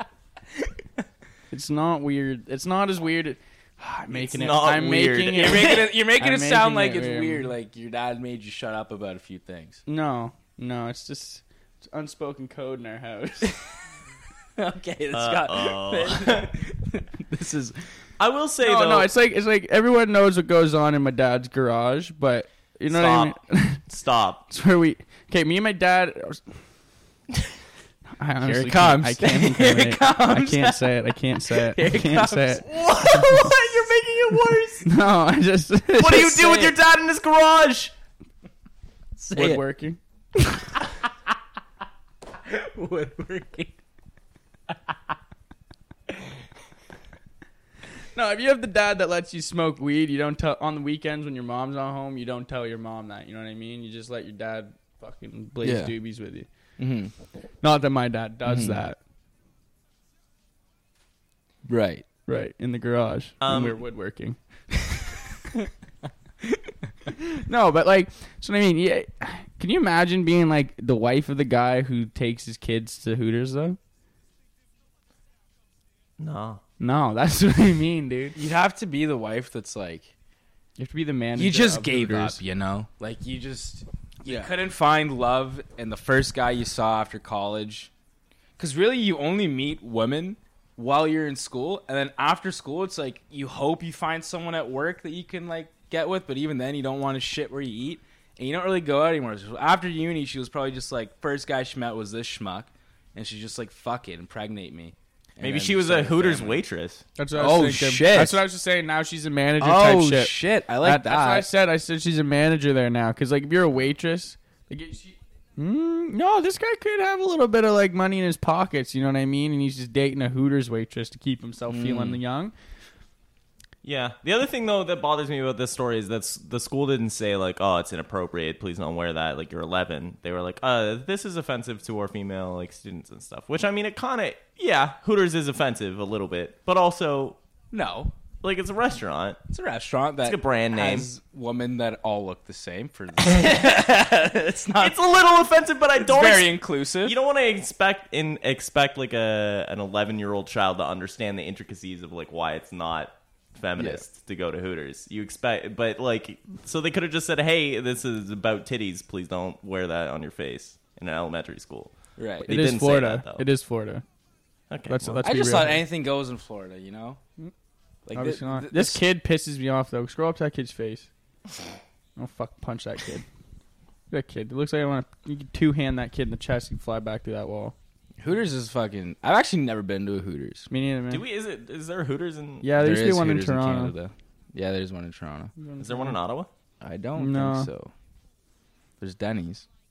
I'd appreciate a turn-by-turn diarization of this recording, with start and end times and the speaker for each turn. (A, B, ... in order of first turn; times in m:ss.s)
0:01.5-0:07.5 A
0:04.1-0:05.8 B
0:05.3-0:09.8 C
0:09.8-0:13.6 A
0:14.6-0:17.8 C
0:15.1-0:16.5 B
0:18.2-0:19.1 B
0:18.6-0:23.8 A
0:22.9-0:24.4 B
0:24.5-0:26.5 A
0:28.2-0:33.5 A
0:28.4-0:32.6 C
0:32.6-0:34.9 B
0:34.8-0:36.7 A
0:36.0-0:37.9 B
0:36.2-0:36.6 C
0:39.2-0:39.6 C
0:39.3-0:40.0 A
0:40.6-0:41.0 C
0:42.4-0:43.7 C
0:48.1-0:56.5 A
0:55.6-0:55.9 C
0:56.8-0:57.1 C
0:57.6-0:59.0 A
0:58.4-0:58.8 C
1:01.7-1:02.0 C
1:02.3-1:04.4 A
1:03.4-1:03.8 B
1:07.1-1:13.8 A
1:16.2-1:16.6 B
1:16.8-1:18.4 A
1:18.4-1:20.1 C
1:20.8-1:22.4 A
1:21.4-1:27.9 C
1:24.2-1:24.5 A
1:28.6-1:46.6 C
1:45.4-1:47.0 B
1:47.2-2:02.5 A
1:47.4-1:48.4 C
1:49.6-1:51.5 C
2:01.7-2:02.2 C
2:03.8-2:17.4 B
2:17.7-2:18.1 C
2:18.4-2:19.4 B
2:19.5-2:25.0 C
2:20.2-2:21.1 B
2:23.3-2:23.8 B
2:24.8-2:43.4 B
2:26.0-2:27.2 C
2:33.8-2:34.0 C
2:42.2-2:42.6 C
2:42.5-2:44.0 A
2:44.7-2:45.2 B
2:44.9-2:45.8 A
2:45.2-2:47.2 C
2:48.1-2:49.0 C
2:48.1-2:51.1 A
2:52.2-2:53.2 A
2:54.1-2:57.7 A
2:58.2-3:00.7 C
3:00.7-3:01.2 A
3:01.1-3:02.7 B
3:02.6-3:03.9 A
3:02.8-3:05.5 C
3:05.6-3:06.2 A
3:05.8-3:06.5 B
3:06.8-3:07.9 C
3:07.2-3:07.7 A
3:09.0-3:09.6 C